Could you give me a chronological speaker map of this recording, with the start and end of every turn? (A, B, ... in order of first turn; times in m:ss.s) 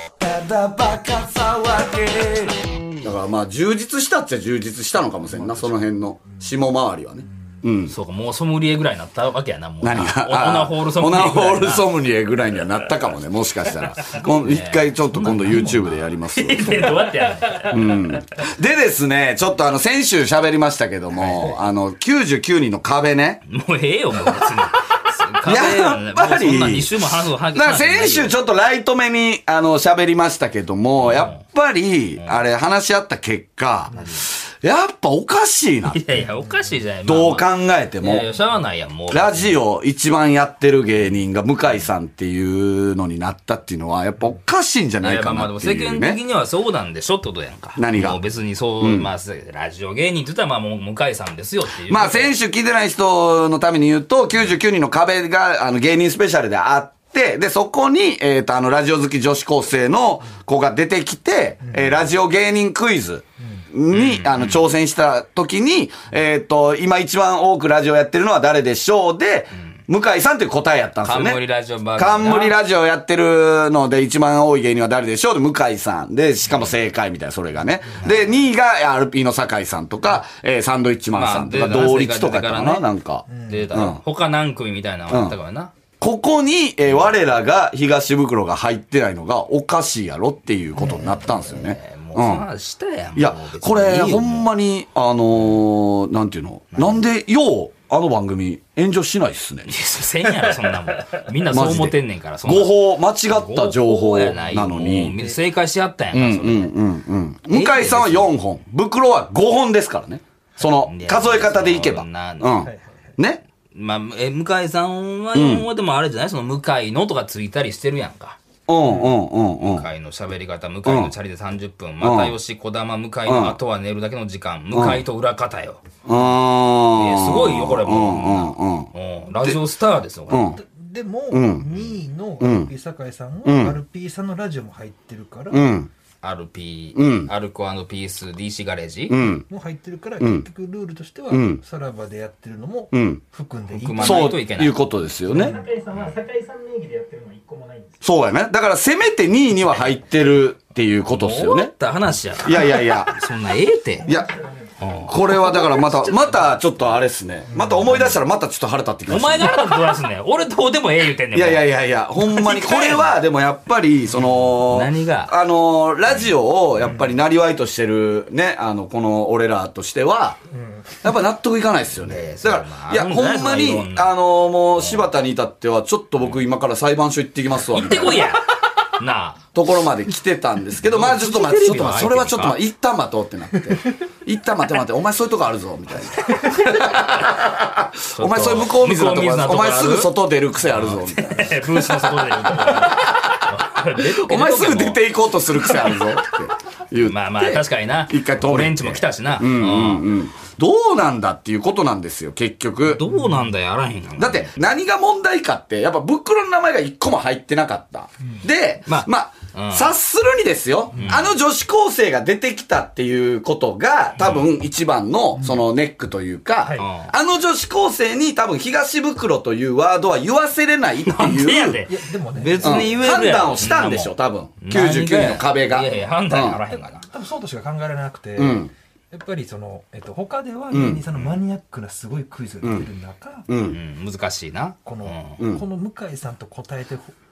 0:00.2-0:07.9 A
0:07.9-0:11.9 B
0:09.8-0:17.0 A
0:14.1-0:18.0 B
0:15.4-0:15.7 C
0:17.7-0:23.4 A
0:21.2-0:21.5 B
0:23.5-0:28.4 B
0:25.4-0:36.0 A
0:31.0-0:31.4 B
0:33.9-0:34.2 B
0:35.9-0:37.5 B
0:37.0-0:38.3 A
0:38.0-0:39.6 B
0:39.1-0:46.2 A
0:45.0-0:52.3 B
0:47.8-0:48.2 A
0:48.8-0:49.1 A
0:51.8-1:11.4 A
1:03.9-1:04.7 B
1:11.0-1:12.6 B
1:12.0-1:24.0 A
1:21.1-1:22.9 B
1:23.3-1:23.7 C
1:23.4-1:25.7 B
1:25.1-1:25.4 A
1:26.0-1:32.5 A
1:31.1-1:34.5 B
1:33.2-1:39.7 A
1:39.7-1:46.8 B
1:41.5-1:45.2 A
1:46.1-1:53.4 A
1:47.5-1:48.3 B
1:50.8-1:52.6 B
1:52.6-1:53.0 C
1:53.7-1:58.4 B
1:55.3-1:55.7 A
1:58.7-1:59.9 A
1:59.6-2:05.8 B
2:00.8-2:01.1 A
2:02.0-2:02.4 A
2:03.3-2:03.6 A
2:04.7-2:05.0 A
2:06.0-2:08.9 A
2:07.0-2:10.5 B
2:10.3-2:10.6 A
2:10.6-2:15.8 C
2:11.3-2:11.8 A
2:12.4-2:12.7 A
2:13.4-2:13.8 A
2:15.5-2:15.9 A
2:16.2-2:19.2 B
2:17.0-2:17.3 A
2:19.1-2:19.5 A
2:19.5-2:24.4 C
2:20.2-2:20.5 A
2:21.3-2:21.6 A
2:22.9-2:23.2 A
2:23.7-2:24.8 B
2:24.0-2:25.6 A
2:25.3-2:25.7 C
2:25.3-2:28.0 D
2:28.0-2:31.7 A
2:31.1-2:34.1 B
2:32.4-2:33.2 A
2:34.0-2:34.3 A
2:34.1-2:35.0 D
2:34.8-2:36.6 B
2:35.0-2:39.7 A
2:37.5-2:37.9 C
2:39.1-2:41.7 B
2:41.3-2:50.4 A
2:42.2-2:43.2 B
2:44.5-2:45.3 B
2:50.5-2:51.0 C
2:51.0-2:58.4 A
2:52.0-2:54.1 B
2:54.8-2:55.1 B
2:57.7-2:58.5 B
2:59.0-2:59.4 B
2:59.5-3:23.0 A
3:00.8-3:02.6 B
3:08.2-3:15.0 B
3:15.6-3:16.0 B
3:17.0-3:20.1 B
3:22.8-3:24.6 B
3:23.1-3:23.4 C
3:24.2-3:41.8 A
3:28.9-3:29.9 B
3:31.0-3:31.2 B
3:34.2-3:34.5 B
3:36.7-3:37.1 B
3:41.0-3:47.1 B
3:41.9-3:43.0 C
3:42.6-3:46.6 A
3:46.7-3:53.5 C
3:48.4-3:48.7 A
3:50.7-3:51.0 A
3:52.6-3:52.9 A
3:53.5-3:53.8 A
3:53.6-3:55.4 B
3:54.8-3:57.2 C